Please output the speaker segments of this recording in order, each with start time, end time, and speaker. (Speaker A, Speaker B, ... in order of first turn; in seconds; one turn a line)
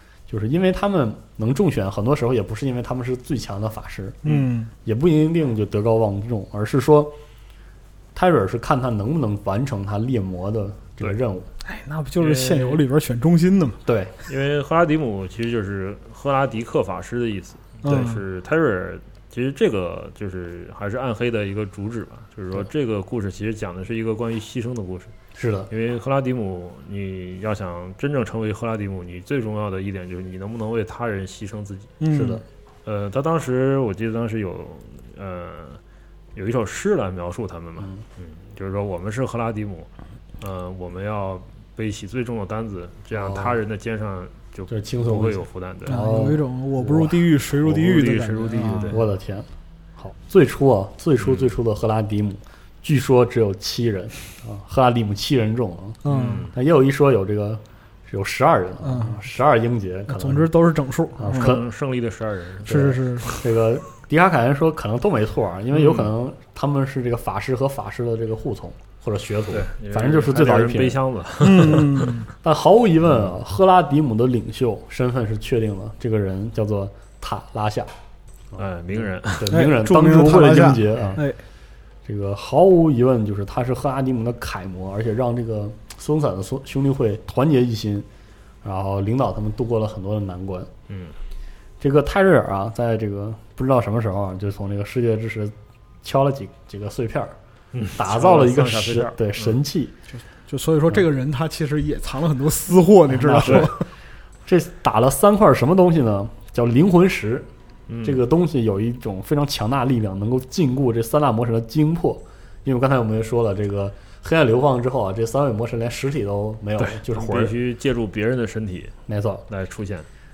Speaker A: 0.3-4.2
Speaker B: 4.2-4.7
Speaker A: 4.8-7.2
Speaker A: 8.1-11.5
Speaker B: 11.6-13.8
Speaker C: 12.2-12.8
Speaker A: 13.8-14.1
Speaker C: 14.2-25.1
Speaker B: 17.8-18.2
Speaker A: 25.3-25.7
Speaker C: 25.7-31.9
Speaker B: 32.0-32.4
Speaker A: 32.1-32.4
Speaker C: 32.8-35.8
Speaker C: 36.3-46.0
Speaker A: 43.1-43.6
Speaker A: 44.7-47.7
Speaker B: 45.9-49.0
Speaker C: 47.6-49.0
Speaker A: 48.8-56.0
Speaker C: 51.2-51.5
Speaker B: 56.0-56.5
Speaker C: 56.0-56.5
Speaker A: 56.5-60.5
Speaker B: 58.8-59.2
Speaker B: 60.1-61.6
Speaker A: 61.2-61.6
Speaker C: 61.3-63.4
Speaker B: 62.6-63.4
Speaker A: 62.6-71.0
Speaker C: 65.7-66.1
Speaker C: 69.5-72.2
Speaker B: 71.4-72.2
Speaker A: 72.4-77.9
Speaker A: 78.5-81.2
Speaker C: 78.6-79.5
Speaker B: 79.5-81.4
Speaker A: 82.0-88.1
Speaker A: 88.6-90.7
Speaker C: 90.9-91.1
Speaker A: 91.8-97.3
Speaker C: 97.7-99.6
Speaker A: 98.0-99.9
Speaker B: 100.3-103.9
Speaker A: 103.1-103.8
Speaker C: 103.4-103.7
Speaker A: 104.5-107.5
Speaker C: 107.9-108.2
Speaker A: 108.0-117.5
Speaker C: 116.8-118.9
Speaker A: 119.1-119.4
Speaker C: 119.5-120.1